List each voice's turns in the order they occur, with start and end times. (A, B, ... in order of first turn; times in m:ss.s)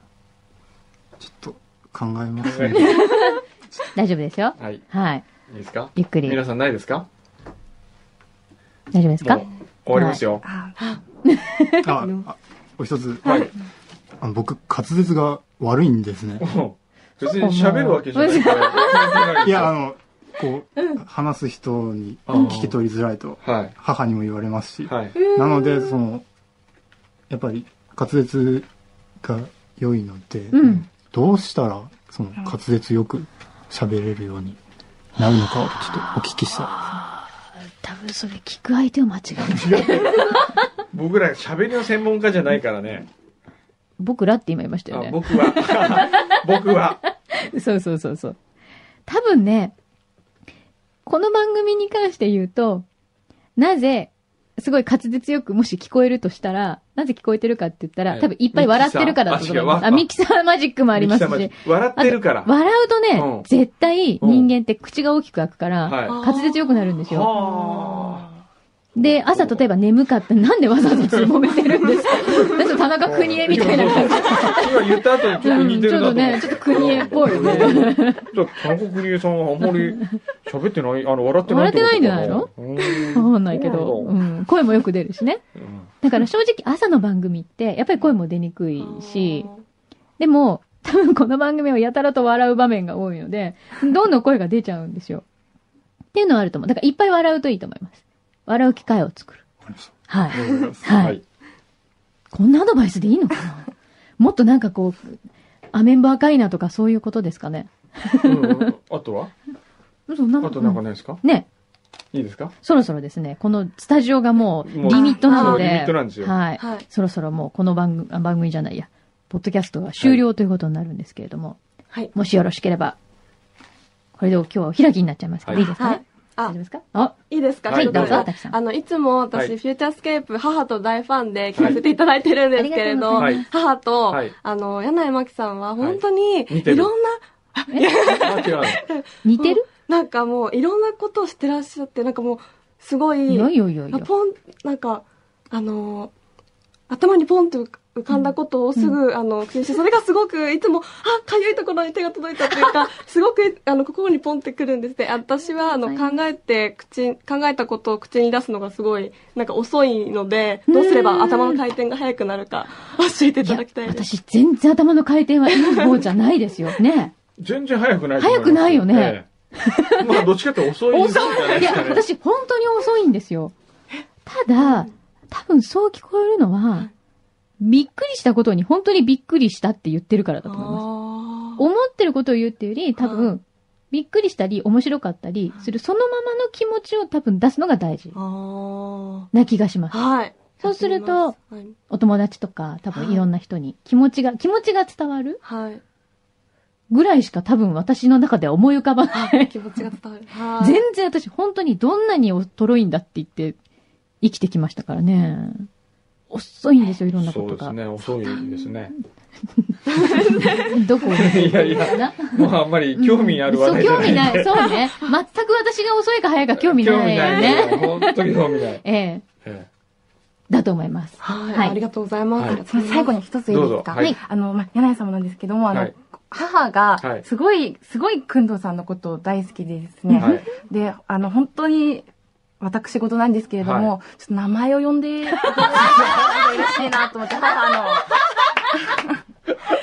0:01.2-0:03.2 A
0:02.4-0:03.0 B
0:02.7-0:03.4 C
0:03.9-0:05.2 C
0:05.5-0:07.1 B
0:05.9-0:06.4 C
0:08.9-0:10.2 C
0:09.2-0:10.4 B
0:10.4-0:10.7 D
0:11.2-0:12.0 C
0:11.8-0:13.5 A
0:13.2-0:13.5 B
0:14.2-0:16.4 A
0:16.4-0:19.7 B
0:17.2-0:19.3 C
0:19.4-0:26.2 A
0:22.3-0:22.8 B
0:23.4-0:23.7 B
0:24.8-0:25.2 B
0:25.1-0:26.0 C
0:27.3-0:28.7 A
0:29.2-0:34.6 A
0:30.5-0:30.9 C
0:35.2-0:36.7 A
0:36.5-0:40.6 C
0:39.4-0:40.4 B
0:40.9-0:43.1 B
0:44.0-0:46.4 C
0:44.9-0:47.0 B
0:47.3-0:48.4 C
0:49.1-0:49.7 C
0:51.0-0:52.8 C
0:53.6-1:07.3 C
0:58.1-1:00.0 B
1:00.9-1:02.5 B
1:03.1-1:03.5 B
1:04.2-1:04.5 B
1:05.8-1:06.2 B
1:06.1-1:06.9 E
1:07.1-1:08.3 B
1:09.0-1:18.3 C
1:09.0-1:09.6 B
1:13.0-1:24.2 B
1:19.6-1:20.1 C
1:21.4-1:22.5 C
1:22.8-1:23.1 E
1:23.1-1:25.4 C
1:25.5-1:25.9 B
1:26.0-1:29.5 C
1:28.8-1:29.6 E
1:30.2-1:35.2 C
1:36.1-1:39.4 C
1:39.6-1:41.0 A
1:40.1-1:41.2 C
1:40.9-1:41.2 B
1:42.3-1:45.2 C
1:45.7-1:48.7 C
1:48.2-1:49.3 B
1:50.1-1:51.5 C
1:50.4-1:51.2 B
1:52.1-1:52.5 B
1:52.6-2:01.6 C
1:54.6-1:56.3 B
1:54.9-1:55.6 E
1:56.6-1:56.8 E
2:02.1-2:03.0 C
2:04.2-2:07.2 C
2:05.6-2:06.5 E
2:07.3-2:26.1 E
2:07.7-2:08.2 B
2:07.7-2:08.5 C
2:12.6-2:13.5 C
2:13.2-2:13.4 B
2:15.8-2:16.9 B
2:18.2-2:18.8 B
2:19.2-2:19.6 C
2:23.3-2:24.1 C
2:26.9-2:44.0 E
2:28.1-2:29.0 C
2:40.7-2:41.6 C
2:43.4-2:47.1 C
2:47.4-2:49.2 B
2:48.2-2:50.3 C
2:50.0-2:52.0 B
2:50.9-2:53.5 C
2:51.3-2:51.6 E
2:54.2-2:56.9 C
2:54.6-2:54.9 E
2:57.6-3:00.8 C
3:00.4-3:01.6 E
3:01.6-3:08.2 C
3:03.0-3:03.3 E
3:08.1-3:09.3 E
3:09.3-3:11.3 C
3:09.9-3:11.7 E
3:11.9-3:15.4 C
3:12.9-3:13.2 E
3:15.4-3:15.8 E
3:16.9-3:19.8 C
3:19.1-3:20.8 E
3:20.6-3:23.6 C
3:24.2-3:25.7 C
3:26.3-3:27.8 C
3:27.2-3:28.9 B
3:29.5-3:38.3 C
3:29.9-3:30.7 E
3:31.1-3:34.7 B
3:36.6-3:38.8 B
3:37.2-3:37.6 E
3:38.8-3:39.2 C
3:40.5-3:41.8 C
3:41.2-3:43.2 E
3:42.7-3:52.1 D
3:43.5-3:44.1 B
3:50.1-3:50.4 C
3:50.2-3:50.5 B
3:52.6-3:58.2 D
3:53.6-3:53.9 B
3:55.4-3:56.8 C